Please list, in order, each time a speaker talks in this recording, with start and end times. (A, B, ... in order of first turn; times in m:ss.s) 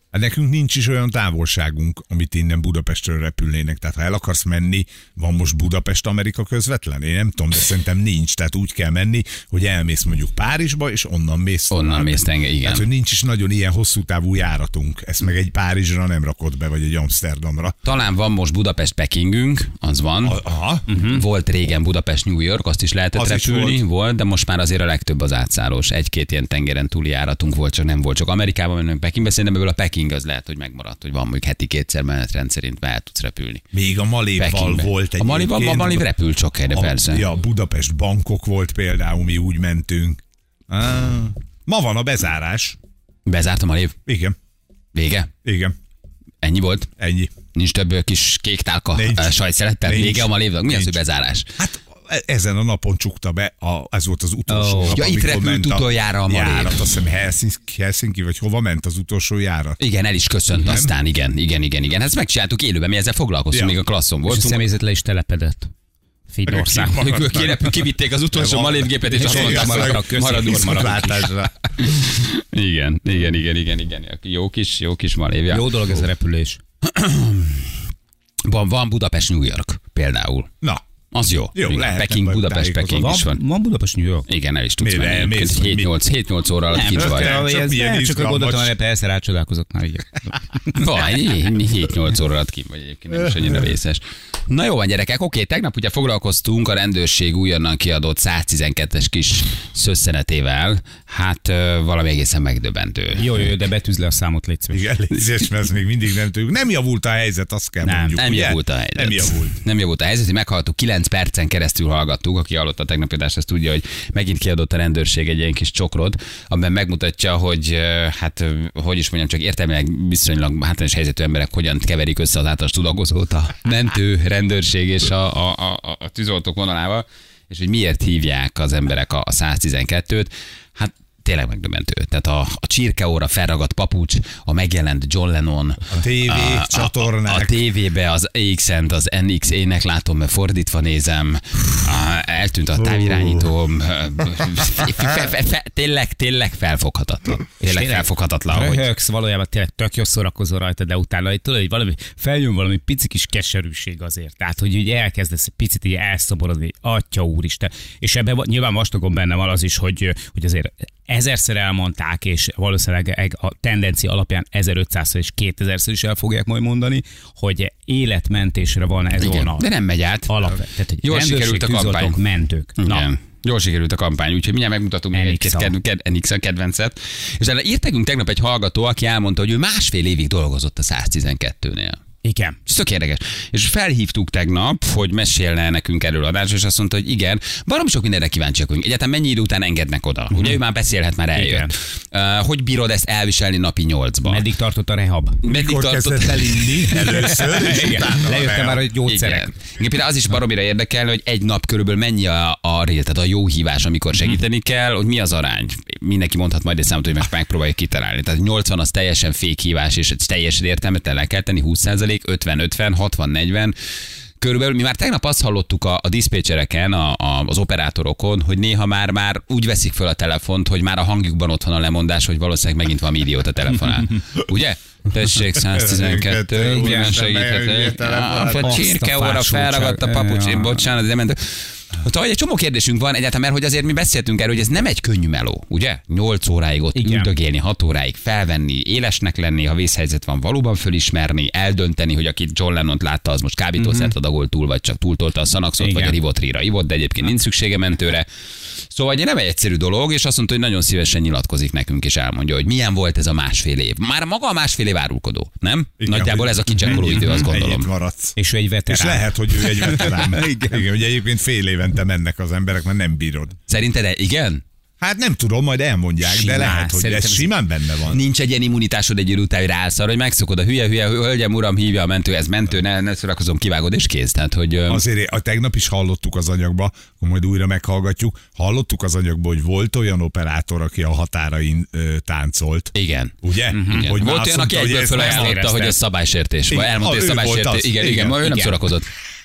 0:00.1-0:17.8 A
0:11.7-0:12.8 B
0:17.8-0:33.6 B
0:20.2-0:20.8 A
0:20.9-0:21.2 C
0:23.1-0:23.8 A
0:33.7-0:36.0 A
0:34.4-0:37.2 B
0:36.7-0:42.8 A
0:43.2-0:43.9 B
0:44.1-0:44.4 A
0:44.9-0:45.3 B
0:45.4-0:45.7 A
0:46.4-0:46.9 B
0:47.0-0:47.3 A
0:47.5-0:51.5 B
0:48.9-0:51.0 A
0:51.6-0:59.8 A
0:54.5-0:55.0 C
0:54.9-0:56.8 B
0:59.8-1:04.7 B
1:00.5-1:00.9 A
1:04.3-1:05.7 C
1:06.3-1:07.0 C
1:06.5-1:07.7 A
1:06.8-1:16.0 B
1:08.3-1:11.5 A
1:09.0-1:11.3 C
1:15.5-1:16.6 C
1:16.8-1:17.7 B
1:18.5-1:20.5 B
1:21.1-1:23.4 B
1:21.5-1:23.2 A
1:22.9-1:24.3 C
1:24.3-1:27.4 B
1:24.8-1:25.9 A
1:26.7-1:30.6 C
1:26.9-1:28.8 A
1:30.7-1:43.5 B
1:43.1-1:44.8 C
1:44.7-1:49.6 A
1:47.8-1:48.2 C
1:48.2-2:28.8 B
2:15.9-2:17.6 A
2:27.6-2:49.7 C
2:49.2-2:50.4 B
2:50.3-2:53.1 C
2:51.0-2:52.2 B
2:52.8-3:02.0 B
2:55.1-2:55.7 C
3:02.2-3:02.6 C
3:02.6-3:14.5 B
3:10.3-3:10.6 C
3:11.3-3:11.7 C
3:14.2-3:15.4 C
3:15.4-3:17.4 B
3:15.4-3:18.8 A
3:17.3-3:19.5 C
3:19.0-3:33.7 B
3:34.4-4:08.3 B
3:45.7-3:48.8 A
3:46.7-3:47.2 C
3:48.6-3:50.9 C
3:57.0-3:57.3 C
4:03.8-4:04.1 C
4:05.8-4:06.2 C
4:08.9-4:17.9 B
4:16.0-4:18.4 A
4:16.8-4:17.5 C
4:18.4-4:20.8 C
4:18.9-4:23.5 A
4:23.7-4:24.6 B
4:25.0-4:28.2 A
4:26.2-4:27.5 C
4:28.1-4:35.0 B
4:34.9-4:42.9 A
4:42.9-4:49.1 B
4:43.4-4:45.6 A
4:43.7-4:44.2 C
4:45.1-4:46.0 C
4:46.7-4:48.7 A